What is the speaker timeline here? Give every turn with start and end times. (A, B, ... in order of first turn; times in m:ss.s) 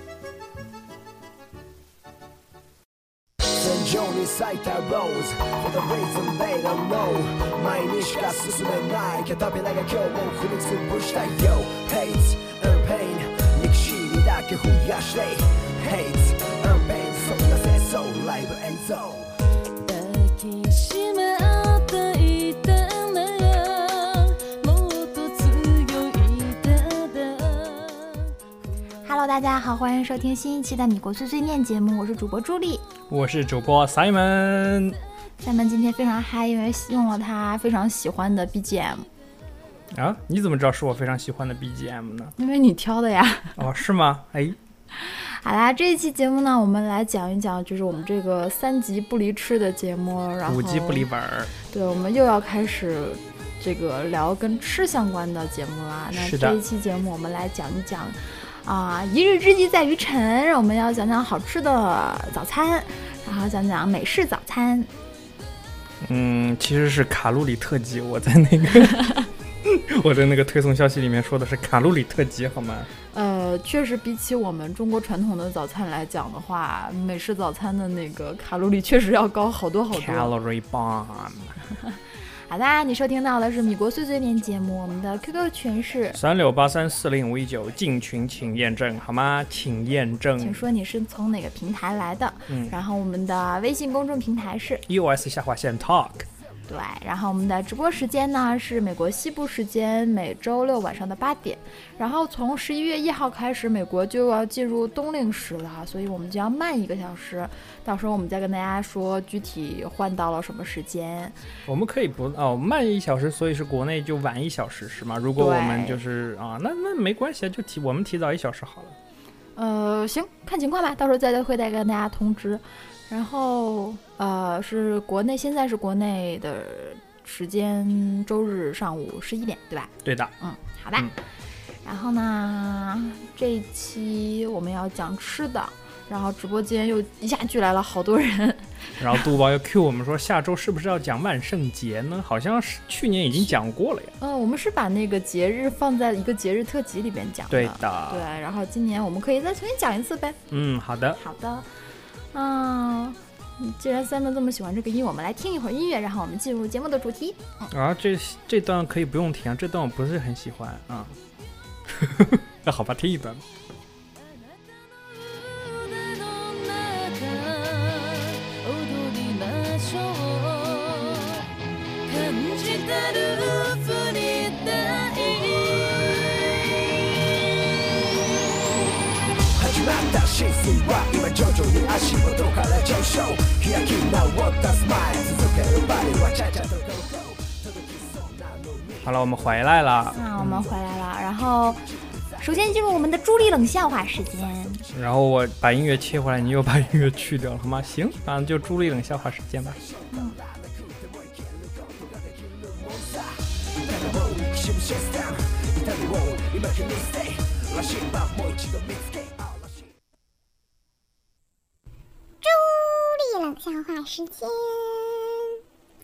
0:03.4-0:19.3 A
0:19.8-0:28.3 B
0:29.0-0:32.8 C
0:33.1-0:35.0 D
0:35.4-0:39.1 C
0:39.9-0:42.3 D
0:42.4-0:43.6 C
0:43.6-0:44.6 D
0:45.0-0:51.1 C
0:50.5-0:51.5 D
0:51.7-1:04.9 C
0:56.1-0:56.6 D
1:06.0-1:09.1 D
1:09.6-1:12.9 D
1:13.1-1:20.3 C
1:19.9-1:21.6 D
1:22.5-1:26.2 C
1:26.2-1:30.7 D
1:30.4-1:34.8 C
1:32.5-1:32.8 D
1:34.9-1:36.3 D
1:36.7-1:51.4 C
1:51.7-1:59.0 D
1:55.4-1:56.0 C
1:59.6-2:11.1 C
2:10.0-2:10.3 D
2:11.8-2:19.3 C
2:19.0-2:24.2 D
2:24.2-2:30.4 C
2:27.5-2:28.3 D
2:30.5-2:31.2 D
2:31.2-2:31.7 C
2:32.3-2:37.7 C
2:37.7-2:41.2 D
2:41.9-2:43.4 D
2:44.6-2:51.5 B
2:52.0-2:56.6 B
2:59.5-3:09.1 A
3:09.0-3:10.7 D
3:10.1-3:11.8 C
3:12.4-3:14.9 C
3:14.9-3:19.8 D
3:20.1-3:20.4 C
3:20.3-3:29.9 A
3:32.4-3:35.6 E